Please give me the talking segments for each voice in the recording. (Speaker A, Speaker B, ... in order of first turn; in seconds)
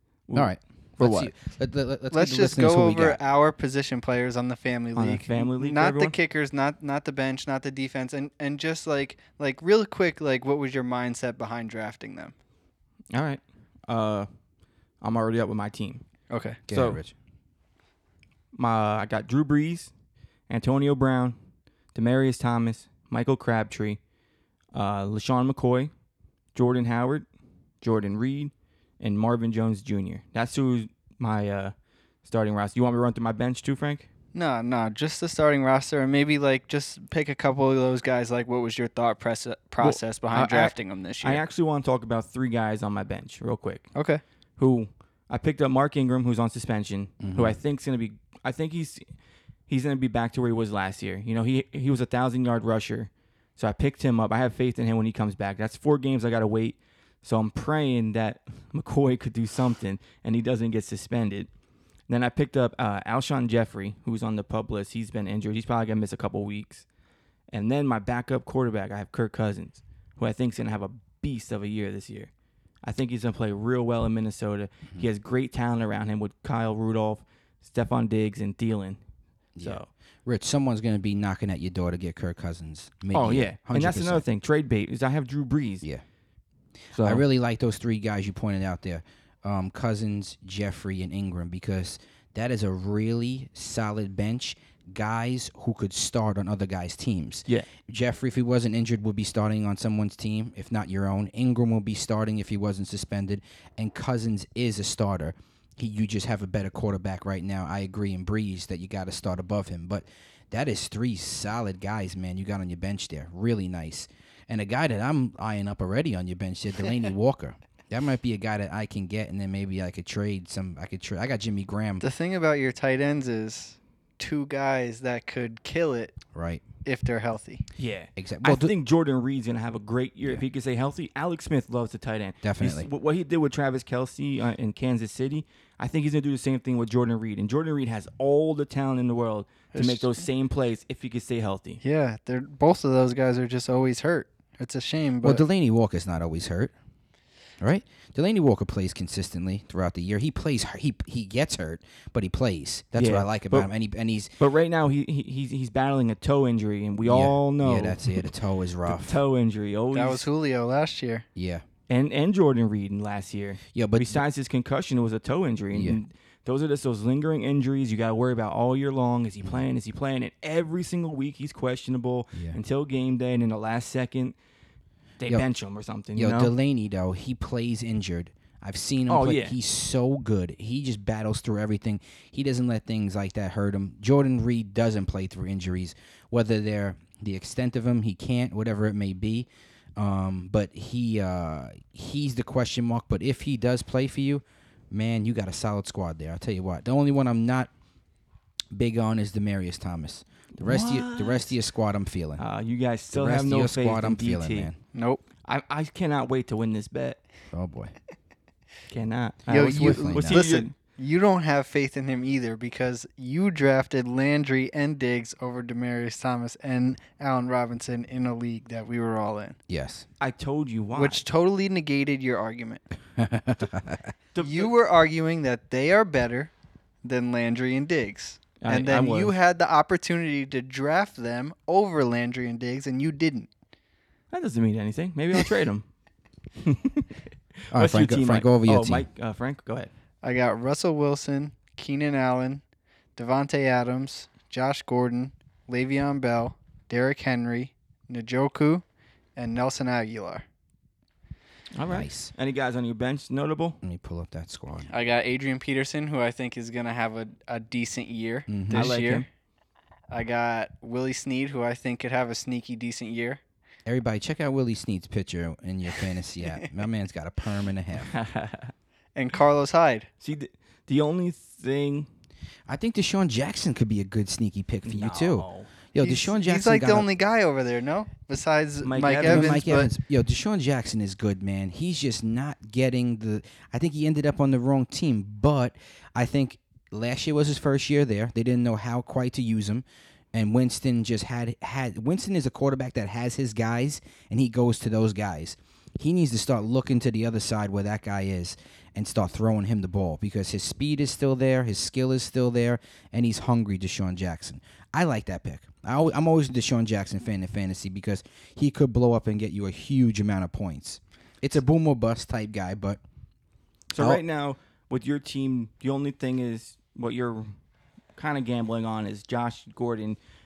Speaker A: 0.3-1.3, 5.0-6.1, 13.1-14.3, 15.0-16.0, 16.7-17.0, 18.5-19.9, 20.5-21.4, 21.9-24.0, 24.7-25.9, 26.5-27.3, 27.8-31.7, 32.2-34.1, 39.8-43.9, 44.6-49.1, 49.7-61.5, 62.1-66.8, 67.5-72.3, 72.8-79.0, 79.6-79.9, 83.1-85.9, 86.9-87.2, 127.8-141.8, 152.9-153.7, 154.4-158.3, 158.8-160.2, 161.9-174.3, 175.2-176.5, 179.1-179.5, 200.6-201.5, 202.4-204.7, 205.4-207.2, 208.9-210.7, 220.2-221.2, 224.3-224.7, 228.6-229.3, 234.3-235.9, 236.6-239.9, 251.7-253.8, 258.7-259.2, 268.0-268.7, 270.2-272.1, 274.8-275.7, 278.8-279.6, 313.9-317.5, 318.1-320.2
Speaker B: 0.3-3.2, 16.7-17.1, 47.2-47.6, 79.6-84.2, 87.0-122.0, 126.3-126.6, 128.2-128.7, 132.4-132.9, 145.2-146.7, 147.6-154.3, 157.0-159.2, 161.3-161.6, 163.7-164.2, 165.7-166.0, 172.3-172.6, 176.2-197.7, 198.7-202.4, 203.1-204.8, 207.5-207.9, 209.5-210.4, 219.7-220.1, 223.2-224.1, 237.7-239.1, 251.9-252.3, 253.8-254.9, 258.5-259.0, 263.9-268.1, 272.7-277.1, 279.2-313.0, 314.0-314.2
Speaker C: 2.1-12.3, 16.3-16.6, 34.3-41.4, 43.9-44.2, 122.0-126.2, 126.8-127.6, 139.7-140.1, 141.8-145.4, 159.9-161.2, 204.9-205.2, 209.5-219.6, 220.9-222.8, 224.4-226.5, 227.0-233.5, 240.2-242.6, 243.2-248.8, 249.3-250.4, 254.9-259.2, 260.1-263.4, 269.1-270.1, 276.0-279.9